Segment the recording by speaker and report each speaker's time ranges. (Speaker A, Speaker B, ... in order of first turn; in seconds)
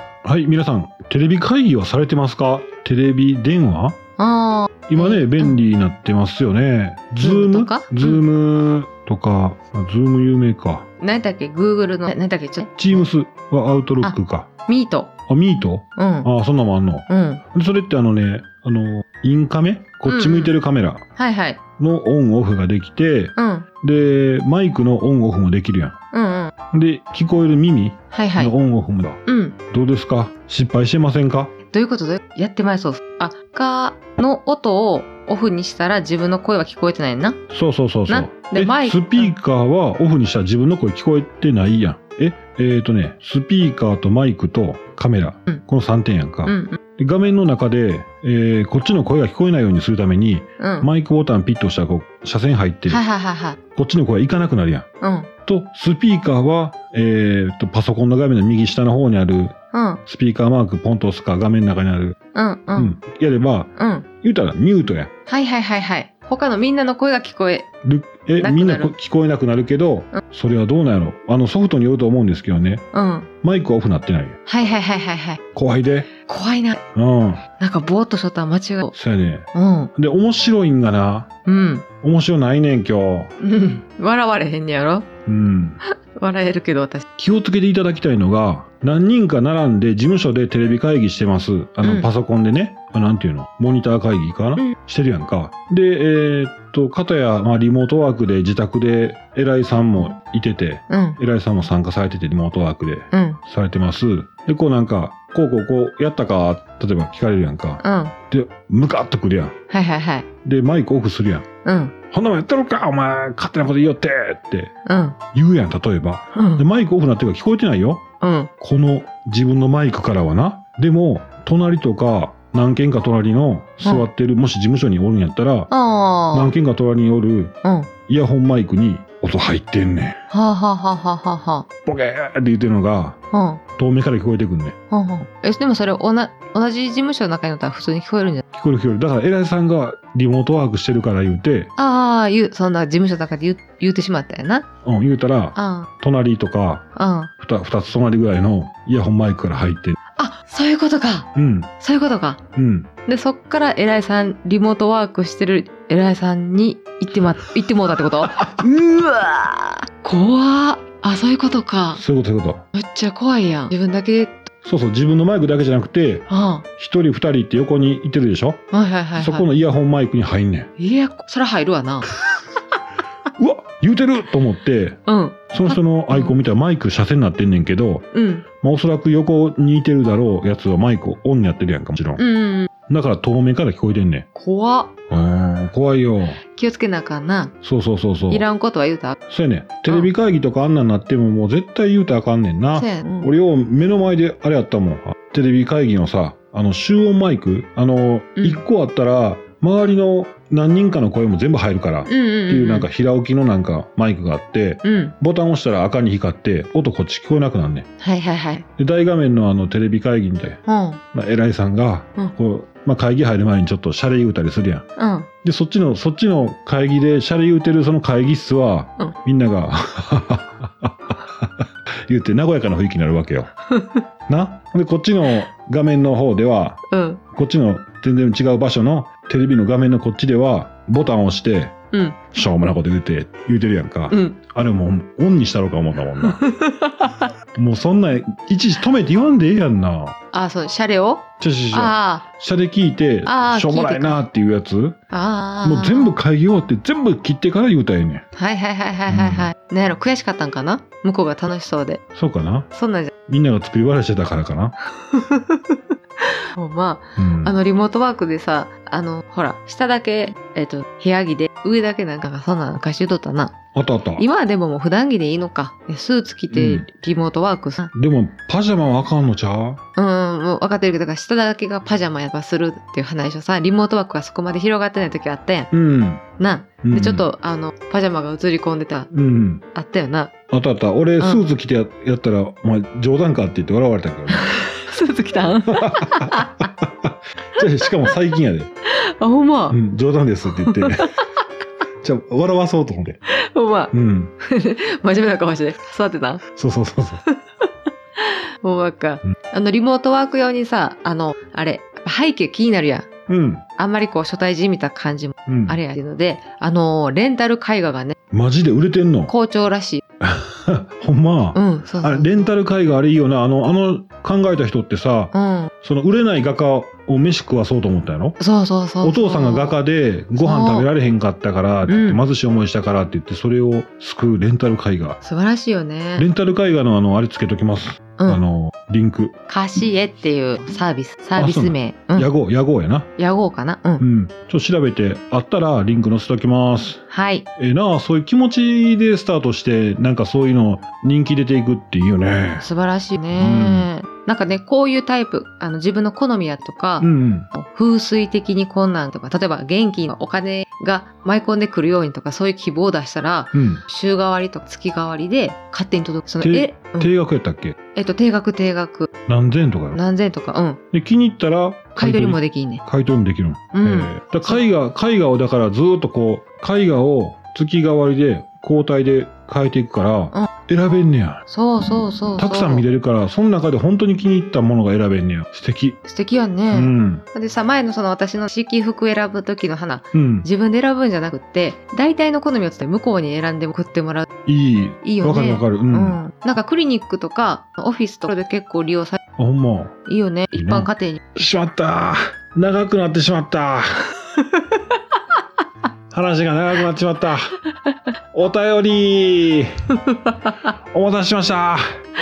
Speaker A: 0.2-4.0, 4.9-10.9, 12.8-14.5, 15.3-21.0, 21.8-26.0, 26.7-31.5, 37.5-53.0, 53.8-54.9, 55.5-62.2, 62.8-63.7, 64.2-65.1, 67.8-72.8, 73.4-74.4, 75.5-76.1, 76.9-77.4, 78.9-81.3, 82.0-83.3, 85.3-85.8, 87.2-109.6, 110.4-111.5, 112.1-114.7, 115.3-118.1, 118.6-125.7, 126.3-130.2, 131.9-133.2, 133.8-134.8, 138.5-141.7, 144.8-146.9, 147.4-150.0, 151.3-151.7, 152.6-152.9, 161.9-162.6, 164.6-168.6, 169.2-170.7, 173.4-175.0, 175.5-178.1, 178.6-182.2, 182.9-184.3, 185.1-186.4, 187.6-188.4, 189.3-207.9, 208.8-210.6, 211.1-214.9, 215.4-223.5, 224.3-231.8, 232.3-236.4, 237.6-240.2, 241.4-245.0, 245.6-248.2, 249.1-249.5, 252.2-252.7, 253.3-254.8, 257.2-257.6, 263.8-264.3, 266.5-266.9, 267.9-269.8, 275.7-276.2, 276.8-277.2, 279.1-279.6, 280.5-284.5, 285.7-288.7, 289.7-291.2, 292.0-293.2, 293.9-294.3, 296.6-297.2, 303.3-303.6, 305.5-305.8, 308.3-309.3, 310.2-318.4, 319.0-325.2, 326.2-329.4, 331.4-333.1, 334.0-337.0, 337.6-342.7, 343.4-343.9, 347.0-347.5, 353.5-353.8, 356.4-357.8, 359.3-360.0, 360.9-371.4, 372.4-376.0, 376.7-377.2, 380.1-380.5, 384.5-386.2, 389.4-390.0, 390.5-394.1, 396.1-397.6, 398.3-399.9, 400.6-401.9
Speaker B: 4.2-5.6, 7.2-8.2, 11.0-12.8, 14.0-15.1, 16.0-16.3, 17.1-17.4, 20.1-20.6, 21.2-21.6, 23.4-23.7, 26.1-26.5, 28.1-28.5, 29.3-29.6, 31.7-37.4, 38.1-39.4, 46.5-46.8, 50.6-50.9, 52.9-53.6, 55.0-55.3, 59.7-60.0, 62.3-62.9, 63.8-64.1, 65.3-67.7, 68.4-68.9, 72.9-73.3, 74.5-75.4, 76.2-76.8, 77.6-78.9, 79.5-79.9, 81.5-81.9, 83.4-85.1, 85.9-87.1, 91.8-92.1, 100.9-101.2, 103.1-103.4, 107.8-108.2, 109.7-110.3, 111.7-112.0, 114.8-115.2, 116.3-116.6, 118.2-118.5, 125.7-126.5, 127.6-127.9, 130.3-131.7, 133.3-133.6, 134.9-138.4, 141.8-144.7, 145.6-145.9, 147.0-147.3, 150.2-151.3, 151.8-152.4, 153.1-162.0, 162.7-164.5, 166.3-166.7, 168.7-169.5, 170.8-172.1, 175.1-176.4, 178.1-178.5, 182.2-182.7, 184.4-185.0, 186.4-187.6, 188.3-189.2, 192.8-193.3, 198.4-198.6, 202.1-202.9, 204.8-205.2, 208.0-208.7, 210.7-211.0, 215.0-215.3, 223.7-224.0, 226.9-227.2, 231.9-232.2, 234.1-234.4, 236.2-237.3, 240.3-242.2, 243.2-244.2, 245.1-246.2, 248.3-252.0, 252.7-253.1, 254.9-263.6, 264.2-267.9, 270.0-275.7, 276.4-279.1, 279.7-280.3, 284.3-286.7, 288.9-289.8, 290.5-291.2, 293.3-296.4, 297.3-303.1, 303.8-308.2, 309.3-310.0, 311.6-312.5, 315.3-315.7, 318.4-319.8, 320.4-320.9, 321.9-322.2, 325.2-326.3, 329.5-332.3, 333.2-334.0, 337.1-337.5, 342.6-357.1, 357.9-359.1, 359.9-360.8, 362.0-362.8, 363.7-364.6, 371.5-372.9, 376.1-384.3, 385.0-389.2, 390.1-391.2